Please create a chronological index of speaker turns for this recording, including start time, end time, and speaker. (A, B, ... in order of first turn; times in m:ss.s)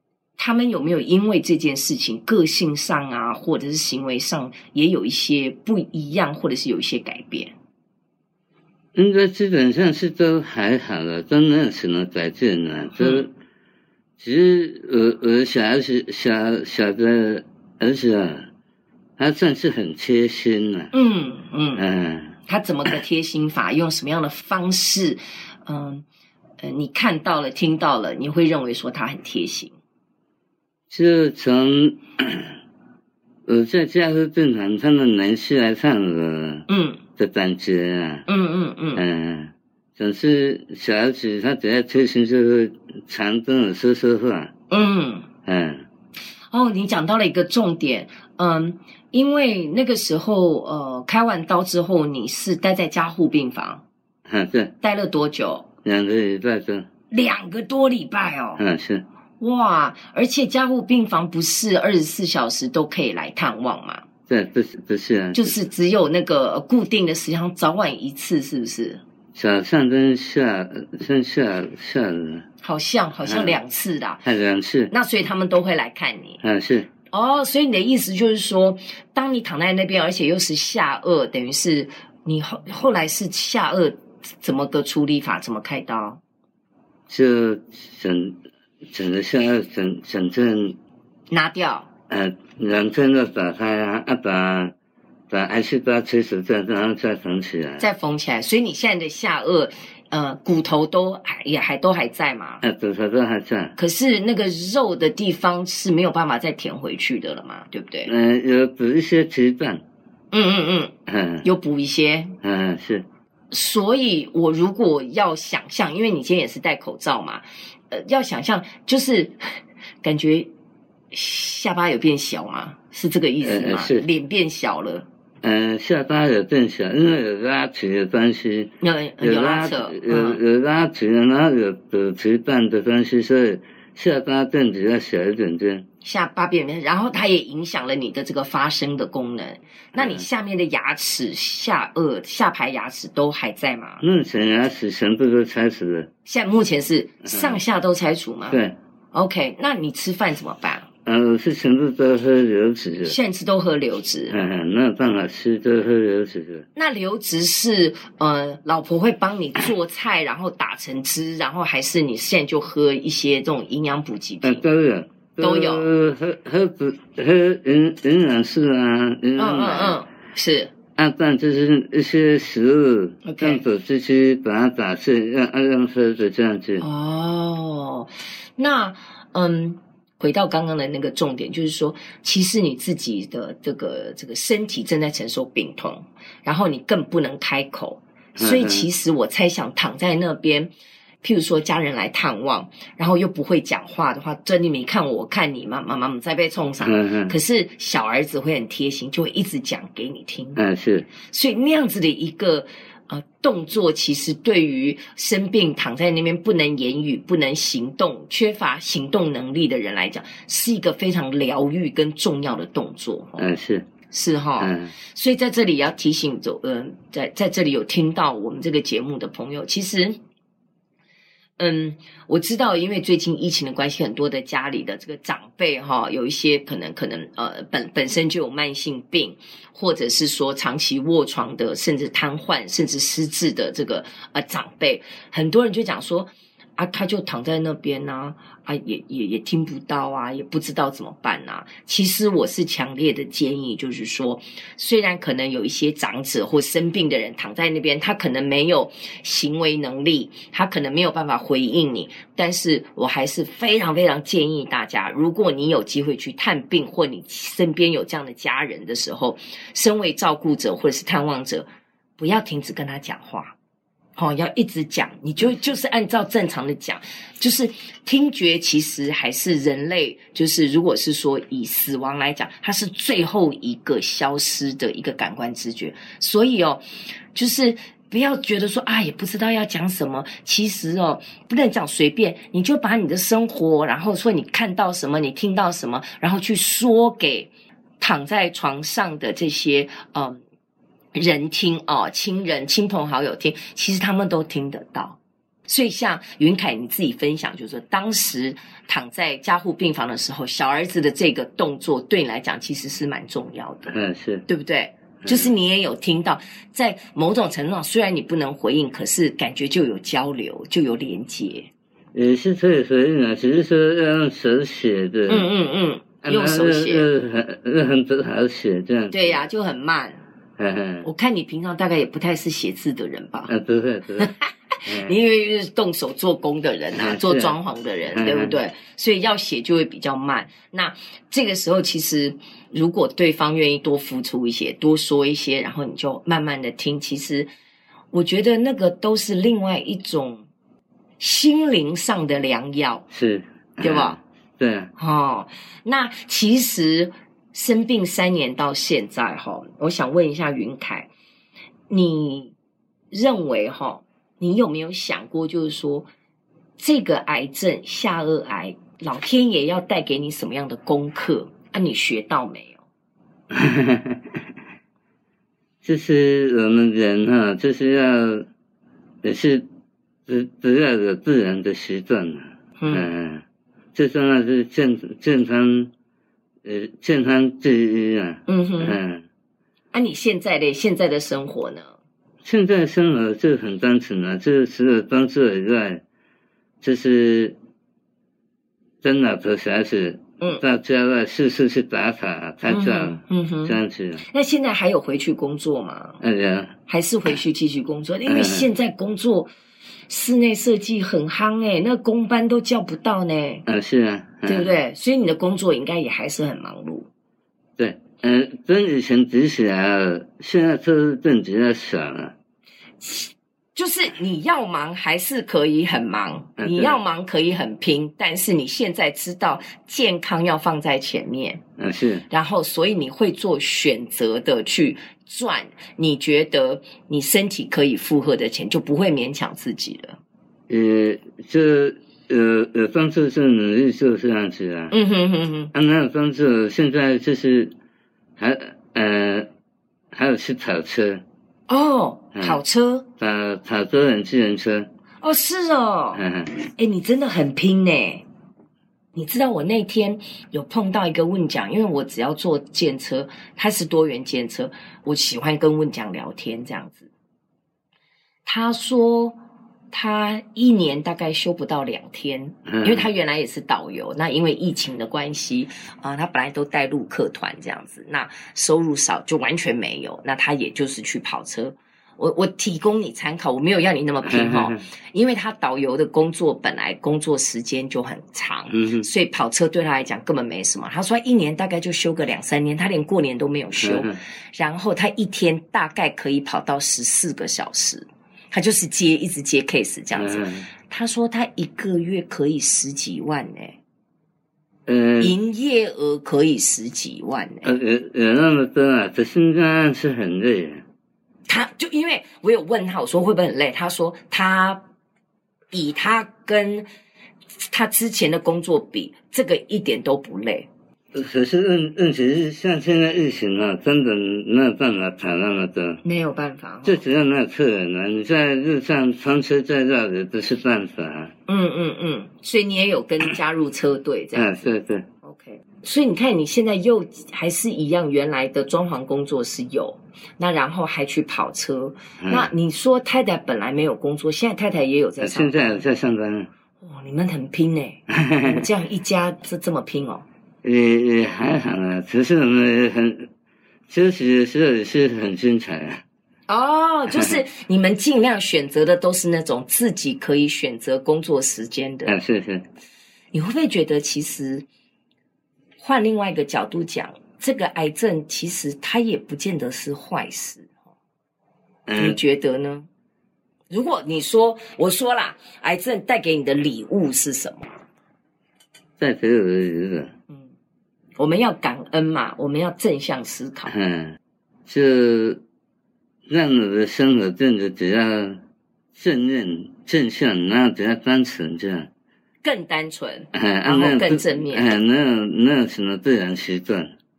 0:00.4-0:07.5 A
0:08.9-0:13.3 B
0:13.0-0:13.2 A
0:14.2-0:18.5 B
0:19.2-0:20.9 B
0:20.9-0:21.8 A
0:21.8-0:22.4 B
0:22.5-0:26.0 A
0:26.6-0:29.7 A
0:30.9-0:32.5 B
0:33.4-0:38.2 B
0:36.7-0:37.0 A
0:38.3-0:39.0 A
0:39.0-0:44.5 B
0:44.7-0:45.3 A
0:45.4-0:45.8 B
0:46.5-0:53.8 A
0:54.3-0:54.7 B
0:54.8-0:55.7 A
0:55.8-0:56.8 B
0:57.1-0:58.6 A
0:58.6-0:59.0 B
0:59.4-1:04.0 A
1:04.3-1:05.5 B
1:05.3-1:09.0 A
1:09.3-1:12.4 B
1:12.6-1:14.2 A
1:13.2-1:13.6 B
1:14.2-1:14.9 B
1:14.9-1:16.4 A
1:16.4-1:16.9 B
1:17.1-1:26.2 A
1:27.1-1:28.4 B
1:28.9-1:30.8 B
1:31.3-1:31.9 A
1:32.1-1:34.7 B
1:35.3-1:37.8 B
1:37.8-1:42.6 A
1:42.6-1:43.7 B
1:43.8-1:48.1 A
1:48.0-1:49.8 B
1:50.3-1:52.4 A
1:51.1-1:51.4 B
1:52.4-1:53.0 B
1:53.5-2:00.5 A
2:01.1-2:05.0 A
2:03.4-2:04.0 B
2:05.4-2:15.8 B
2:08.8-2:10.4 A
2:16.0-2:24.0 A
2:19.9-2:20.2 B
2:24.0-2:26.1 B
2:26.2-2:28.6 A
2:27.2-2:27.6 B
2:28.5-2:28.8 B
2:29.1-2:30.9 A
2:31.0-2:33.2 B
2:33.0-2:34.4 A
2:34.3-2:36.7 B
2:36.7-2:44.6 A
2:44.4-2:50.0 B
2:45.4-2:45.9 A
2:49.4-2:50.7 A
2:51.0-2:56.8 B
2:53.2-2:53.6 A
2:56.8-3:20.6 A
3:08.4-3:08.8 B
3:16.8-3:17.3 B
3:20.6-3:21.1 B
3:21.2-3:33.5 A
3:33.4-3:33.8 B
3:34.1-3:40.2 A
3:34.6-3:34.9 B
3:41.6-4:21.6 A
4:22.2-4:23.5 A
4:24.2-4:36.8 A
4:37.3-4:50.4 A
4:51.1-5:03.9 A
5:03.9-5:04.4 B
5:04.5-5:11.7 A
5:05.2-5:05.5 B
5:12.1-5:15.5 B
5:15.3-5:17.1 A
5:16.2-5:19.4 B
5:19.1-5:20.2 A
5:20.6-5:21.1 B
5:21.0-5:23.5 A
5:23.5-5:24.3 B
5:24.2-5:37.5 A
5:24.8-5:25.1 B
5:27.0-5:27.6 B
5:28.1-5:28.6 B
5:38.1-5:40.4 A
5:41.2-5:43.1 A
5:43.1-5:44.9 B
5:43.8-5:44.2 A
5:45.0-5:51.1 A
5:51.9-5:52.5 A
5:53.1-5:56.1 A
5:56.8-6:02.8 A
6:03.5-6:04.2 B
6:05.8-6:08.5 B
6:09.2-6:09.6 B
6:10.2-6:13.4 B
6:12.8-6:13.1 A
6:13.9-6:15.9 B
6:16.6-6:19.2 B
6:18.5-6:19.0 A
6:19.9-6:22.0 A
6:22.4-6:26.0 B
6:26.8-6:27.6 B
6:29.0-6:34.2 B
6:32.7-6:36.2 A
6:36.2-6:36.7 B
6:36.9-6:39.5 A
6:38.3-6:38.7 B
6:40.1-6:43.6 A
6:43.6-6:44.8 B
6:44.4-6:47.1 A
6:47.8-6:52.3 B
6:53.0-7:01.6 A
6:56.6-6:57.0 B
7:01.8-7:02.2 B
7:02.3-7:10.2 A
7:10.7-7:14.9 B
7:14.9-7:15.7 A
7:15.7-7:17.7 B
7:18.4-7:19.5 B
7:20.1-7:21.2 B
7:21.7-7:23.0 A
7:22.3-7:22.6 B
7:23.2-7:24.9 B
7:25.2-7:26.2 A
7:26.1-7:26.6 B
7:26.8-7:28.2 A
7:29.1-7:37.1 A
7:38.4-7:39.4 A
7:39.9-8:13.8 A
7:42.7-7:43.0 B
7:54.2-7:54.8 B
7:58.7-7:59.0 B
8:03.8-8:04.2 B
8:10.2-8:10.7 B
8:14.9-8:15.3 B
8:15.2-8:17.7 A
8:17.6-8:20.8 B
8:21.5-8:24.8 A
8:25.7-8:26.8 A
8:27.6-8:30.7 A
8:31.1-8:36.0 B
8:36.0-8:37.0 A
8:36.8-8:41.3 B
8:41.5-8:44.7 A
8:44.3-8:45.0 B
8:45.2-8:55.8 A
8:52.2-8:52.5 B
8:55.2-8:56.5 B
8:56.8-9:00.2 A
8:58.1-8:58.6 B
9:00.6-9:03.3 B
9:03.9-9:06.0 B
9:06.5-9:12.2 A
9:12.0-9:12.6 B
9:13.3-9:14.6 A
9:15.8-9:20.7 A
9:21.9-9:22.2 B
9:22.0-9:22.9 A
9:23.7-9:27.7 A
9:29.0-9:30.1 B
9:31.2-9:33.7 A
9:33.7-9:35.4 B
9:36.3-9:38.4 B
9:38.9-9:41.9 B
9:42.4-9:44.8 A
9:43.3-9:46.9 B